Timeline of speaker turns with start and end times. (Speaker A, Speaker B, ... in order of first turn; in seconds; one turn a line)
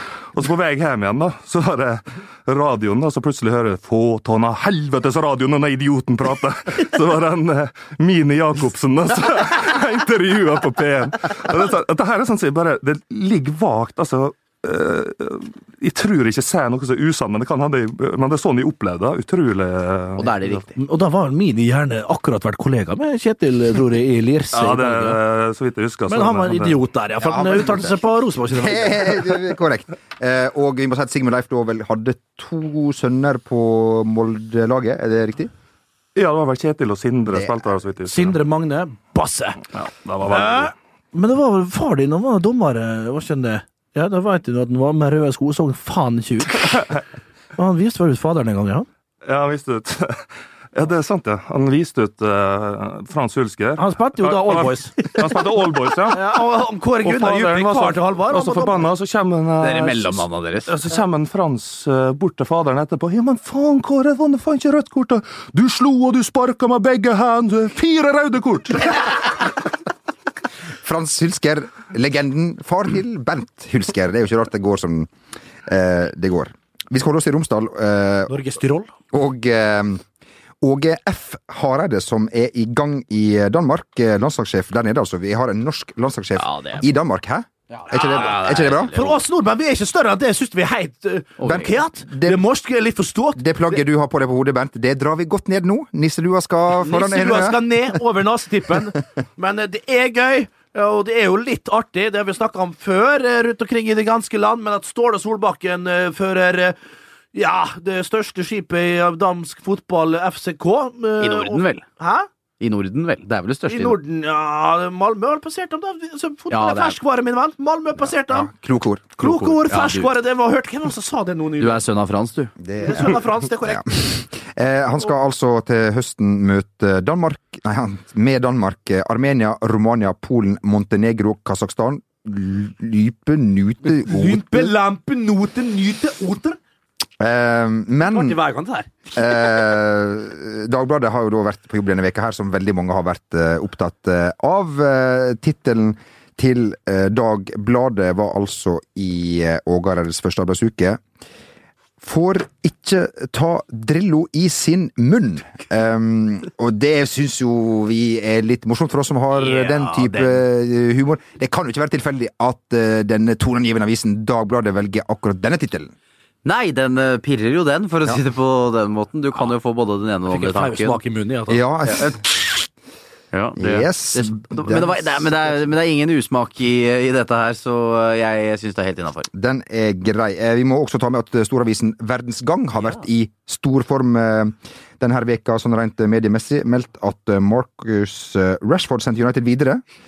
Speaker A: 0.3-20.6
Speaker B: 20.2-20.8
Speaker C: 20.8-25.0
Speaker A: 24.5-26.8
Speaker C: 26.1-29.4
Speaker D: 27.2-28.0
Speaker D: 28.5-35.5
Speaker A: 36.2-38.4
Speaker D: 37.3-37.7
Speaker C: 38.1-39.7
Speaker A: 39.8-40.7
Speaker C: 40.2-47.0
Speaker C: 47.6-48.9
Speaker A: 49.2-56.5
Speaker C: 53.8-55.4
Speaker C: 56.1-58.9
Speaker A: 57.0-69.4
Speaker B: 59.6-60.8
Speaker D: 70.8-75.1
Speaker D: 75.7-78.3
Speaker C: 78.3-78.9
Speaker D: 79.1-80.0
Speaker D: 80.6-88.9
Speaker B: 86.4-86.8
Speaker B: 87.7-89.2
Speaker C: 87.9-93.8
Speaker B: 91.4-91.7
Speaker D: 91.5-92.4
Speaker D: 93.4-97.8
Speaker C: 96.8-106.8
Speaker C: 107.3-112.3
Speaker B: 111.2-111.8
Speaker B: 112.6-114.0
Speaker C: 113.7-118.5
Speaker B: 116.5-117.0
Speaker D: 118.3-119.2
Speaker C: 119.2-121.8
Speaker B: 119.2-120.1
Speaker B: 121.6-122.5
Speaker D: 122.6-134.7
Speaker C: 122.8-123.9
Speaker C: 133.9-136.6
Speaker D: 137.2-138.4
Speaker C: 138.0-139.0
Speaker D: 139.2-151.0
Speaker D: 152.0-165.9
Speaker C: 159.4-160.1
Speaker B: 166.4-171.0
Speaker C: 170.3-171.6
Speaker D: 171.5-172.5
Speaker B: 171.9-172.2
Speaker B: 173.3-179.3
Speaker D: 173.6-175.5
Speaker D: 179.3-189.8